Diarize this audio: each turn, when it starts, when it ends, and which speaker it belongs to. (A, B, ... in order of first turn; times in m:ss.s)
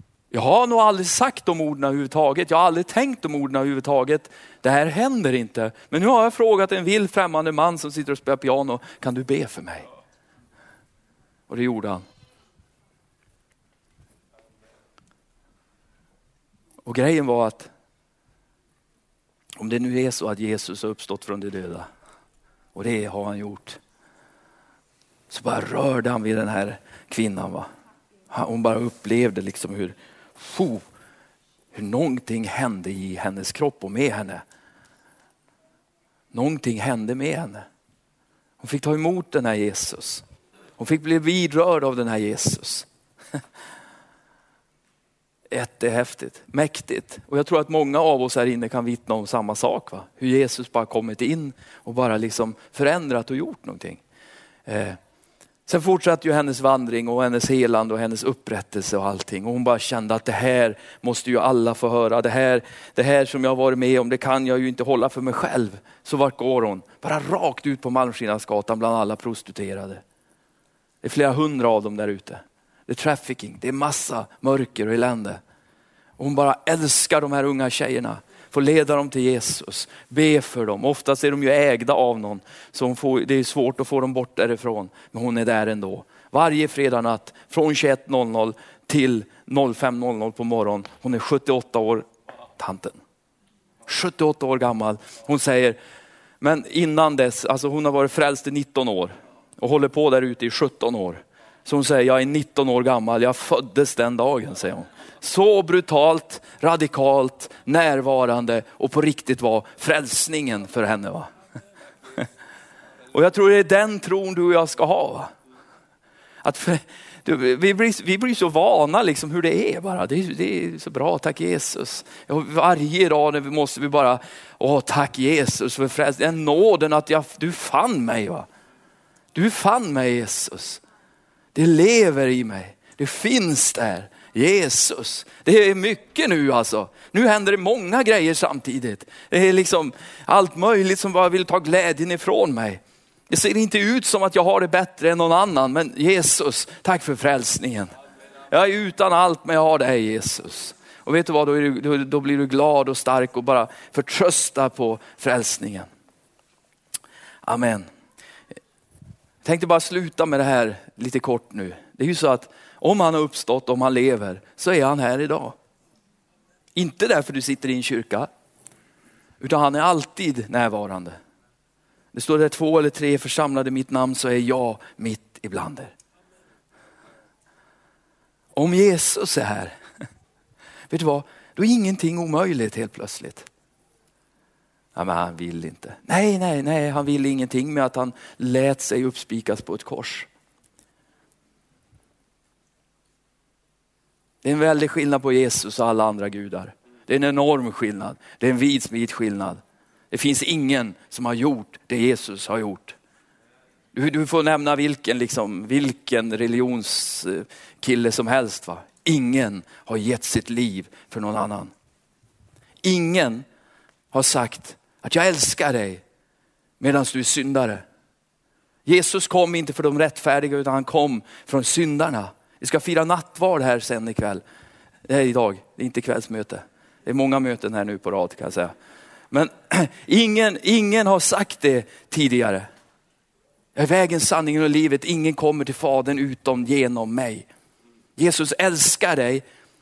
0:00.3-0:09.8 A
0:11.5-0:12.0 A
0:16.8-0:17.7 A
0:19.6-0:21.9 A
0:22.7-0:23.8 A
0:25.3-0:27.7 A
0:28.3-0:30.8 A
0:31.7-0:34.4 A
0:36.3-0:37.6 A
0:38.6-0:40.2 A
0:40.8-0:42.9 A
0:45.5-0:54.0 A
0:54.6-0:55.0 A
0:55.7-1:10.0 A
1:11.0-1:15.4 A
1:16.2-1:32.0 A
1:32.6-1:33.0 A
1:33.8-1:35.8 A
1:36.4-1:51.3 A
1:53.1-1:55.3 A
1:56.4-2:08.5 A
2:09.3-2:10.8 A
2:11.5-2:27.9 A
2:28.5-2:35.9 A
2:37.4-2:37.9 A
2:39.4-2:45.6 A
2:46.7-2:48.3 A
2:49.4-2:51.2 A
2:52.1-2:55.9 A
2:58.5-2:59.7 A
3:00.9-3:03.5 A
3:04.9-3:10.3 A
3:14.4-3:23.0 A
3:23.9-3:31.7 A
3:32.8-3:33.4 A
3:34.1-3:36.0 A
3:36.8-3:37.8 A
3:38.8-3:44.4 A
3:45.1-3:48.7 A
3:49.3-3:52.7 A
3:53.7-3:57.5 A
3:58.2-3:59.4 A